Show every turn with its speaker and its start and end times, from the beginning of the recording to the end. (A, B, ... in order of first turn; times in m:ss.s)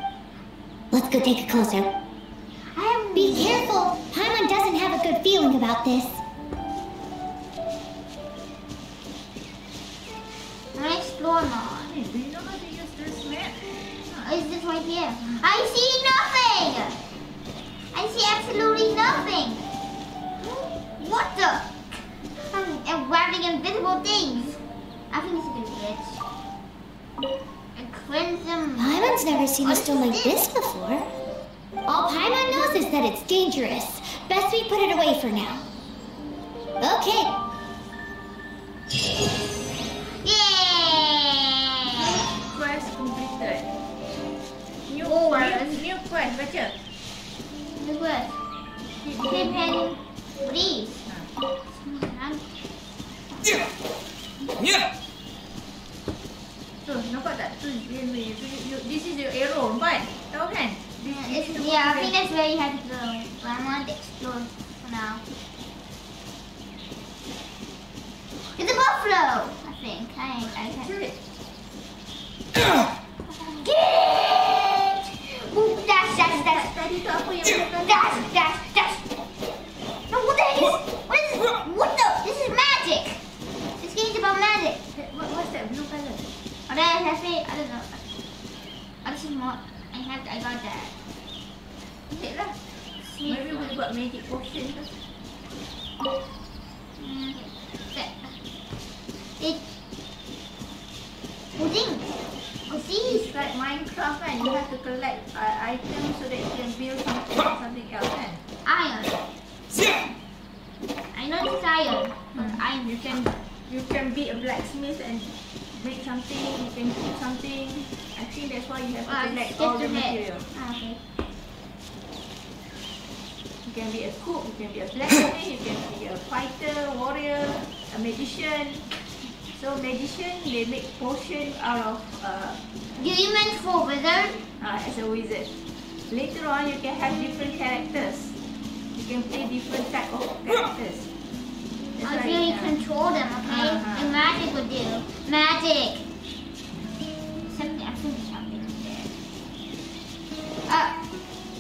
0:00.9-0:01.9 A
0:02.7-0:03.6 B
0:03.1-0:06.2 A
0:10.8-0:12.0 B
0:11.9-0:14.2 C
0:14.2-0:17.0 B
0:17.9-0:19.6 B
0:20.4-0:21.8 B
0:22.3-0:26.2 B
0:27.8-0:30.5 B
0:28.8-0:31.1 A
0:31.9-0:35.7 A
0:32.3-0:32.7 B
0:36.8-0:37.3 A
0:40.0-0:42.2 B
0:42.0-0:43.7 C
0:44.9-0:46.8 C
0:45.0-0:45.8 B
0:47.8-0:48.4 B
0:49.0-0:49.8 C
0:49.2-0:51.0 B
0:51.7-0:52.4 B
0:53.3-0:53.7 B
0:56.8-1:02.1 C
1:01.1-1:05.2 B
1:08.4-1:10.9 B
1:10.8-1:11.1 C
1:13.4-1:16.7 B
1:16.2-1:18.3 C
1:17.8-1:19.0 B
1:20.1-1:23.2 B
1:23.8-1:24.8 B
1:24.9-1:26.3 C
1:26.7-1:28.0 B
1:29.0-1:31.0 B
1:32.1-1:32.6 C
1:33.0-1:33.8 B
1:33.3-1:34.9 C
1:37.0-1:38.3 B
1:39.4-1:39.6 B
1:41.6-1:42.2 B
1:42.7-1:43.3 B
1:43.1-1:48.4 C
1:48.6-1:49.2 B
1:49.7-1:50.1 C
1:51.1-1:53.4 B
1:52.4-2:00.5 C
1:59.0-2:01.0 B
2:03.7-2:12.6 C
2:13.0-2:14.4 B
2:14.6-2:15.5 C
2:16.1-2:18.4 C
2:18.9-2:21.1 C
2:22.0-2:22.8 C
2:22.0-2:26.1 B
2:23.4-2:24.2 C
2:27.5-2:29.2 B
2:30.7-2:31.0 B